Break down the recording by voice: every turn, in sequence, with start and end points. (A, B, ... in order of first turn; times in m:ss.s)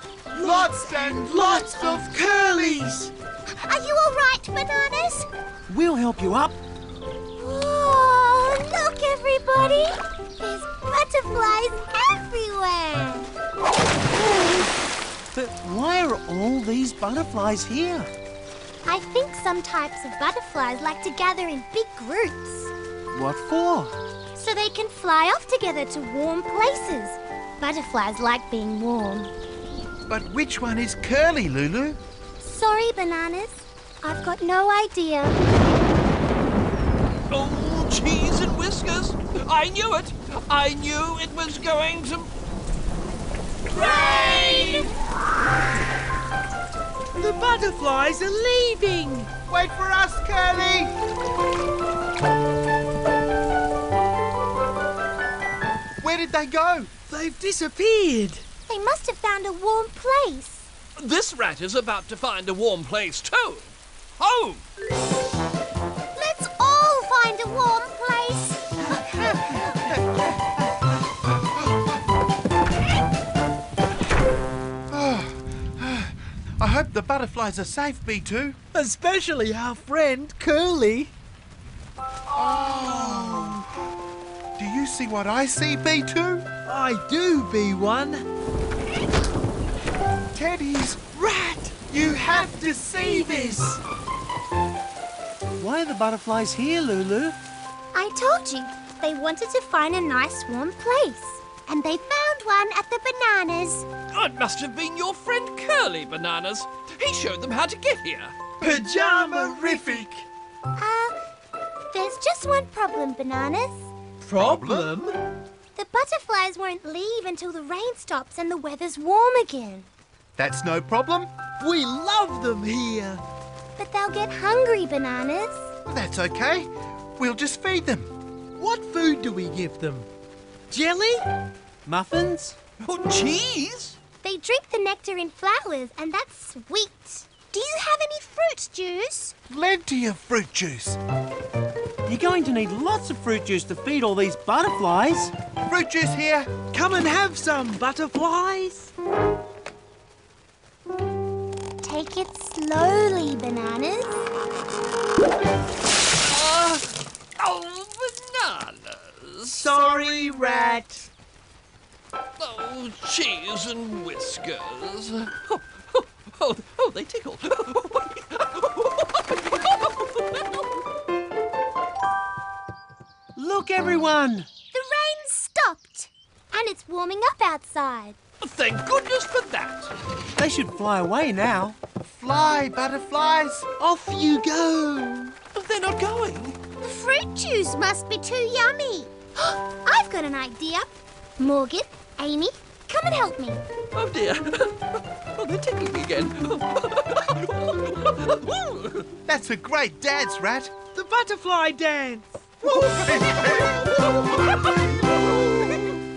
0:00.3-0:02.1 A
0:00.4-0:03.1 B
0:03.5-0:05.3 C
0:05.7-0:06.6 D
0:07.4-0:13.3 C
0:14.4-0:14.6 D
0:15.3-0:18.1 D
0:18.8-0:22.7 C
0:23.1-0:24.0 D
0:24.4-0:29.3 C
0:30.1-0:32.0 A
0:32.4-0:35.4 C
0:37.3-0:42.3 E
0:43.7-0:44.9 B
0:43.8-0:44.8 A
0:47.2-0:49.3 B
0:49.5-0:50.9 A
0:56.0-0:56.9 A
0:57.1-0:58.4 B
0:58.7-1:00.7 C
1:01.0-1:04.6 E
1:06.2-1:08.7 C
1:09.0-1:10.4 A
1:14.9-1:18.6 A
1:18.7-1:21.1 B
1:22.3-1:23.6 A
1:24.6-1:26.5 A
1:26.7-1:28.2 B
1:30.3-1:31.1 A
1:31.1-1:33.8 B
1:31.9-1:33.6 A
1:35.6-1:37.4 D
1:37.9-1:43.9 C
1:44.1-1:48.4 E
1:48.6-1:50.3 B
1:50.8-1:51.2 C
1:51.9-1:53.9 C
1:54.2-1:55.2 B
1:54.4-1:54.9 A
1:55.8-1:59.9 C
2:00.4-2:01.3 A
2:01.6-2:03.2 B
2:03.8-2:05.7 C
2:05.9-2:08.1 A
2:08.6-2:10.1 B
2:10.7-2:11.2 B
2:11.9-2:12.6 D
2:12.8-2:14.0 E
2:14.2-2:19.4 C
2:19.5-2:21.0 A
2:22.1-2:25.3 D
2:25.7-2:26.5 A
2:26.7-2:28.9 B
2:31.8-2:34.3 C
2:36.2-2:39.7 E
2:39.5-2:41.1 B
2:42.4-2:50.7 E
2:53.4-2:54.5 D
2:54.7-2:58.2 C
2:58.4-2:59.9 E
3:00.4-3:01.8 D
3:02.0-3:03.7 A
3:03.8-3:05.4 B
3:05.6-3:06.6 E
3:06.8-3:13.6 C
3:14.0-3:19.1 E
3:19.3-3:20.7 A
3:20.9-3:23.0 B
3:22.7-3:23.8 A
3:23.0-3:25.9 E